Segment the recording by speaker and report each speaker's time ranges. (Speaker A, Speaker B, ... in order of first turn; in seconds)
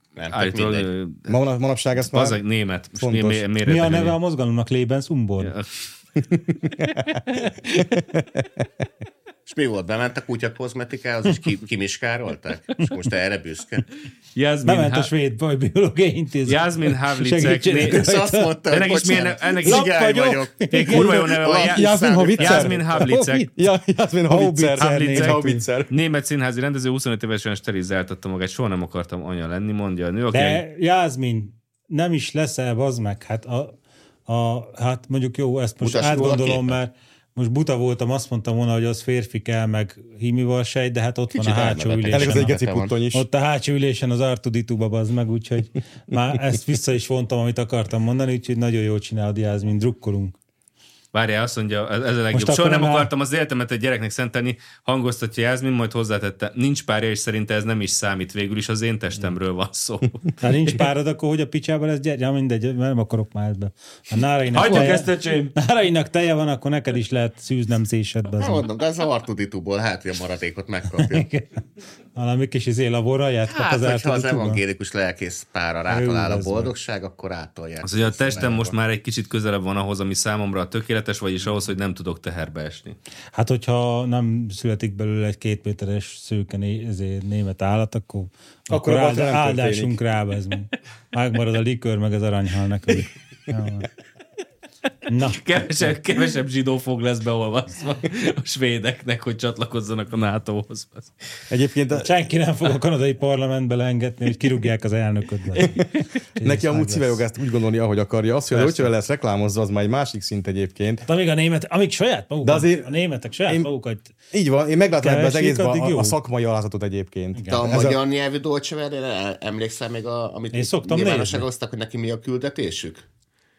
Speaker A: 0.2-0.9, 9.5-13.9, 17.8-22.7, 35.8-36.8, 41.3-42.9, 68.4-71.3, 73.5-78.8, 117.5-123.0
Speaker B: 0.3-1.3, 2.0-4.2, 5.4-5.8, 7.3-8.0, 14.3-15.1, 16.5-18.1, 18.7-20.2, 20.7-23.5, 24.8-30.6, 51.1-60.4, 64.5-65.5, 77.8-83.0, 95.3-101.1
Speaker C: 1.3-2.4, 3.0-3.4, 6.3-7.1, 8.0-8.4, 21.4-25.9, 42.1-43.2, 88.7-90.0, 101.5-102.1, 105.6-111.0, 112.4-112.9, 113.5-113.7, 114.3-118.0
Speaker D: 3.6-5.5, 14.7-18.6, 19.6-21.2, 22.9-23.5, 24.3-25.6, 30.3-33.8, 34.3-42.5, 43.1-50.4, 52.3-53.1, 60.4-68.7, 71.0-71.6, 72.2-74.6, 75.9-76.7, 83.3-93.9, 95.1-96.0, 101.9-105.8, 106.4-107.2, 111.1-114.1, 115.0-116.2, 117.3-117.6, 120.5-121.5